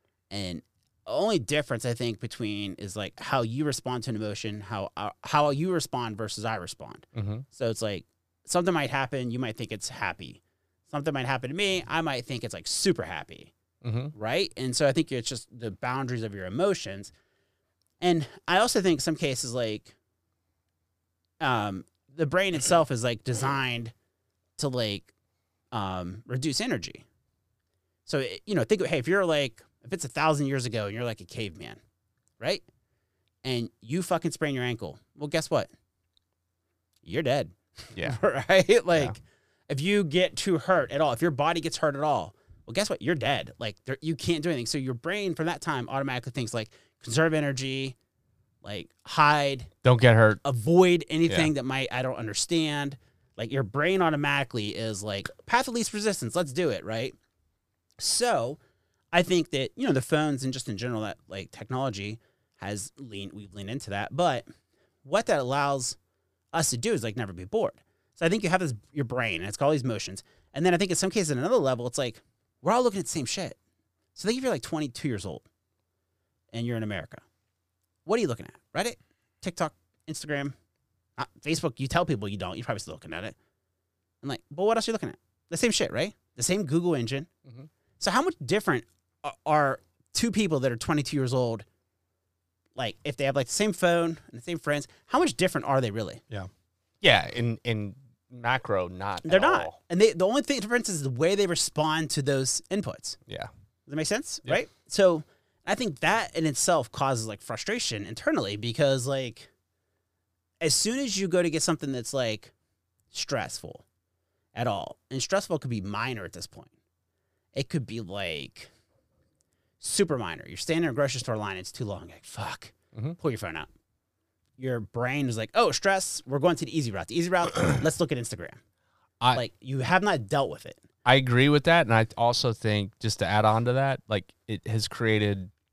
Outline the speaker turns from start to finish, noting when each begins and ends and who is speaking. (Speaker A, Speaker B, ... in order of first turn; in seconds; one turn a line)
Speaker A: 0.3-13.5
Speaker B: 7.1-7.4
Speaker B: 13.8-14.1
Speaker A: 14.1-17.1
Speaker A: 18.0-19.9
Speaker A: 21.4-23.9
Speaker A: 24.6-25.1
Speaker A: 25.7-27.0
Speaker A: 28.1-31.8
Speaker A: 32.4-32.6
Speaker A: 33.4-35.7
Speaker A: 37.0-48.0
Speaker A: 48.6-49.7
Speaker B: 49.8-50.4
Speaker A: 50.4-57.1
Speaker A: 58.0-58.6
Speaker A: 59.1-64.5
Speaker A: 65.0-66.0
Speaker A: 66.5-73.6
Speaker A: 74.1-75.4
Speaker A: 76.5-77.2
Speaker A: 78.0-80.5
Speaker A: 81.2-83.3
Speaker A: 84.2-87.3
Speaker A: 88.0-91.6
Speaker A: 92.8-96.2
Speaker B: 97.0-99.7
Speaker A: 99.2-103.2
Speaker A: 103.9-109.5
Speaker A: 110.6-112.5
Speaker A: 113.1-113.8
Speaker A: 114.5-116.7
Speaker A: 117.5-118.7
Speaker A: 119.8-123.7
Speaker A: 124.6-128.6
Speaker A: 129.3-130.8
Speaker B: 131.0-135.5